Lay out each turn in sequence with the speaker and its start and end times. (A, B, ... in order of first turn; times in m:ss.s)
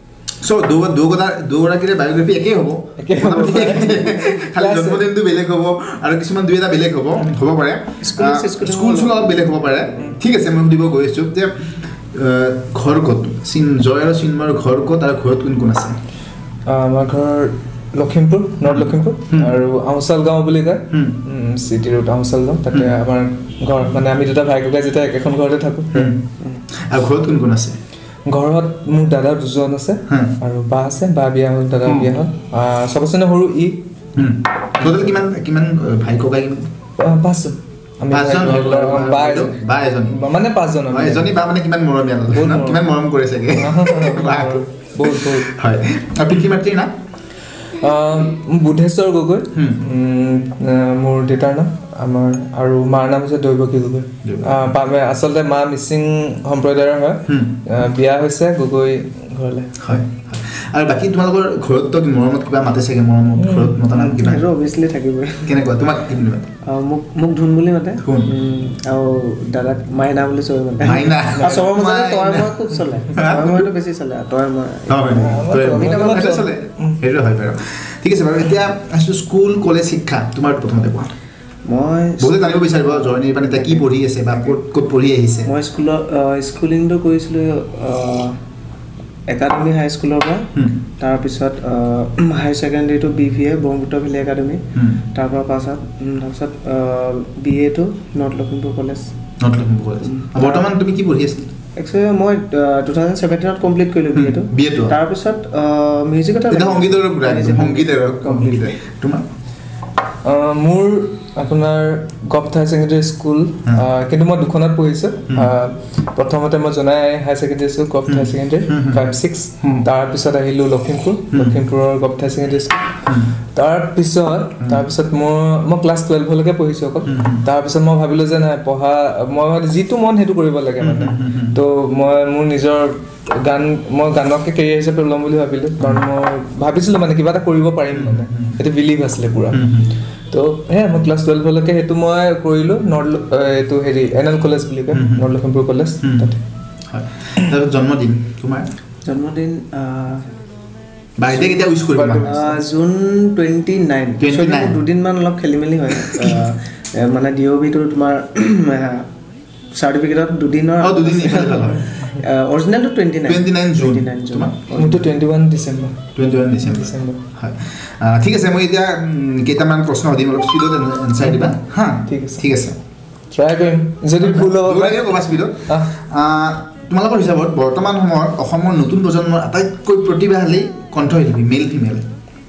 0:00.4-0:16.0 A
0:03.0-0:05.0 B
0:08.0-0:09.4 C
0:16.6-0:26.1 B
0:18.6-0:19.6 A
0:20.9-0:21.2 A
0:25.9-0:26.2 A
0:26.7-0:27.8 A
0:28.3-0:33.8 B
0:30.1-0:30.3 A
0:34.2-0:36.6 A
0:37.0-0:41.3 B
0:38.1-0:40.2 A
0:40.9-0:46.9 A
0:42.3-0:42.8 B
0:43.6-0:45.5 B
0:47.8-0:59.9 B
0:49.5-0:49.8 A
0:54.2-0:54.6 A
0:57.3-0:57.6 A
0:59.8-1:04.4 A
1:03.4-1:03.8 B
1:03.9-1:05.6 C
1:05.4-1:06.5 A
1:06.6-1:16.4 C
1:08.0-1:08.3 A
1:10.8-1:12.6 A
1:11.3-1:11.7 B
1:13.1-1:13.6 A
1:14.9-1:21.1 A
1:15.1-1:17.0 B
1:21.6-1:23.9 C
1:22.2-1:25.5 A
1:25.4-1:28.4 C
1:29.3-1:39.1 C
1:30.5-1:30.8 A
1:34.7-1:35.0 A
1:39.4-1:41.5 A
1:40.0-1:40.6 C
1:41.8-1:48.7 C
1:44.1-1:45.0 A
1:46.5-1:49.2 A
1:50.2-2:02.9 B
1:58.1-1:59.0 A
2:01.3-2:01.6 A
2:03.5-2:19.6 B
2:07.1-2:07.4 A
2:10.8-2:11.6 A
2:17.9-2:18.6 A
2:19.5-2:19.9 A
2:20.3-2:26.4 B
2:24.9-2:25.3 A
2:26.0-2:26.3 A
2:26.9-2:28.7 A
2:29.0-2:30.3 C
2:31.2-2:32.3 A
2:31.3-2:31.6 C
2:31.9-2:32.6 B
2:32.3-2:39.0 C
2:34.2-2:34.8 A
2:39.7-2:45.1 C
2:40.8-2:41.9 A
2:43.3-2:44.5 A
2:44.8-2:46.1 B
2:46.2-2:52.8 A
2:46.6-2:47.2 B
2:51.2-2:51.5 B
2:52.1-2:52.4 B
2:53.3-2:55.9 B
2:54.2-3:02.0 A